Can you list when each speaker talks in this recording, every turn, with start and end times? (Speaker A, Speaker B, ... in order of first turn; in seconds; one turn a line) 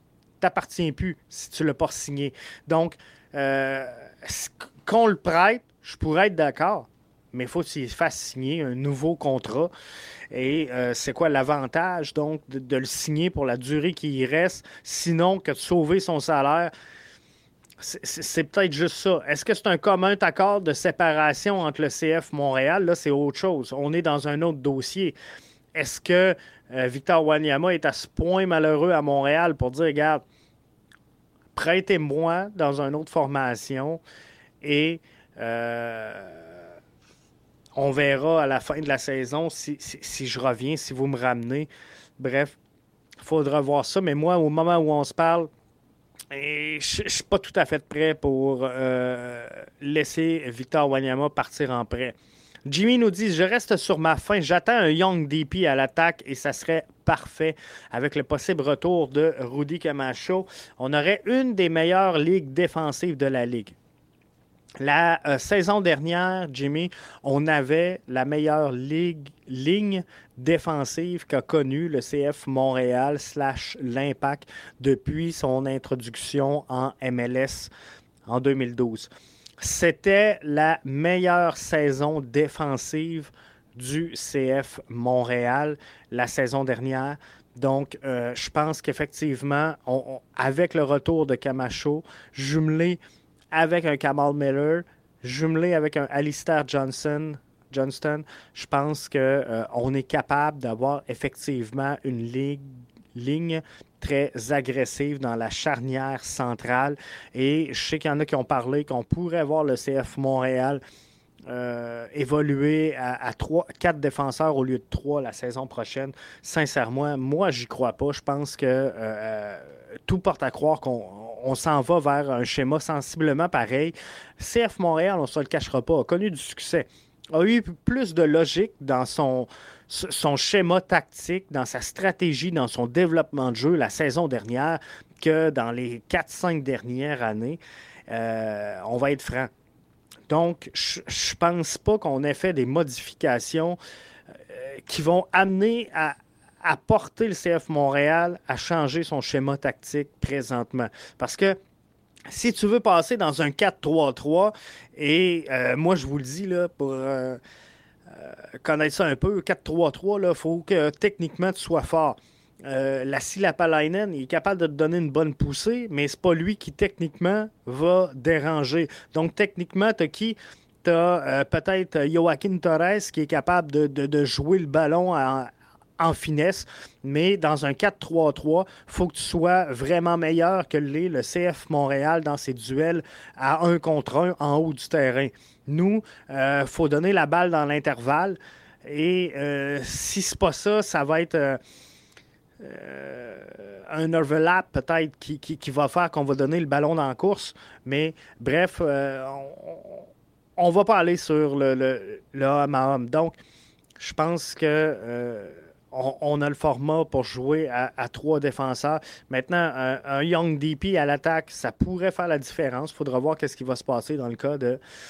Speaker A: 0.4-9.7
Speaker A: 10.3-16.7
Speaker A: 17.8-25.2
Speaker A: 25.7-30.2
Speaker A: 31.5-34.0
Speaker A: 34.6-36.6
Speaker A: 37.8-42.6
Speaker A: 43.2-45.5
Speaker A: 46.3-63.8
Speaker A: 64.8-77.7
Speaker A: 78.3-93.0
Speaker A: 93.5-110.8
Speaker A: 111.5-139.5
Speaker A: 140.3-143.8
Speaker A: 144.5-151.6
Speaker A: 152.3-157.4
Speaker A: 158.1-191.6
Speaker A: 192.6-203.4
Speaker A: 204.0-214.8